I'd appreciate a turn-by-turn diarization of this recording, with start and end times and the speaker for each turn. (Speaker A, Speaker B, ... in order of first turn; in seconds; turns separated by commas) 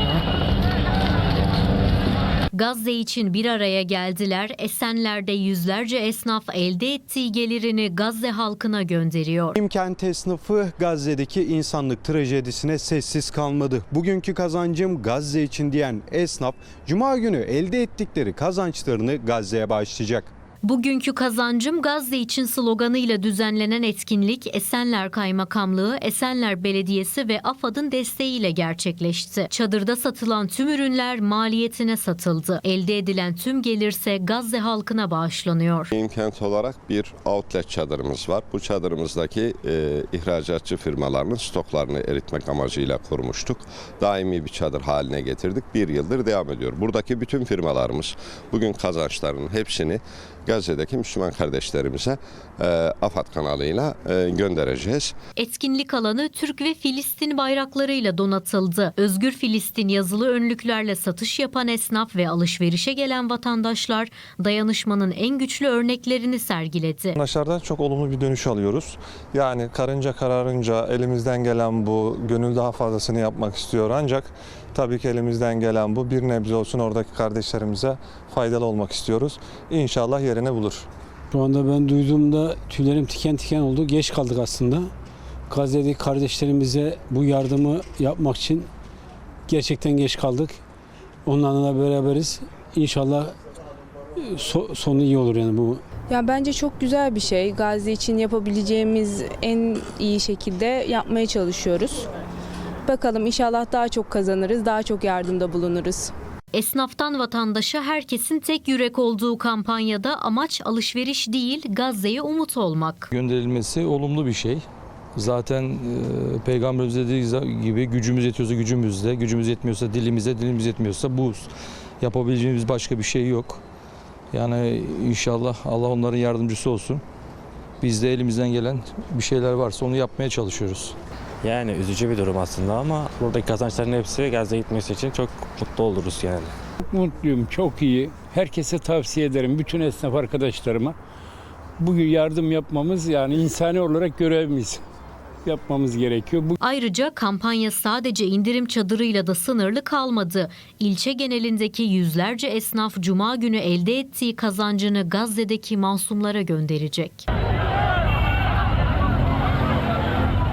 Speaker A: 2.5-9.6, Speaker B: 9.6-20.3, Speaker A: 20.6-35.9, Speaker C: 35.9-55.1, Speaker A: 55.4-67.2, Speaker D: 67.2-80.9, Speaker E: 81.3-84.9, Speaker E: 85.5-88.7, Speaker E: 89.5-90.6, Speaker E: 91.3-93.3, Speaker E: 94.2-95.8, Speaker F: 96.1-102.1, Speaker F: 102.9-106.1, Speaker A: 106.5-113.1, Speaker G: 113.1-114.6, Speaker G: 115.2-121.5, Speaker G: 122.0-123.6, Speaker G: 124.3-127.0, Speaker G: 127.8-130.9, Speaker H: 131.4-136.3, Speaker I: 136.9-141.0, Speaker I: 141.8-144.8, Speaker I: 145.4-146.6, Speaker A: 146.6-157.3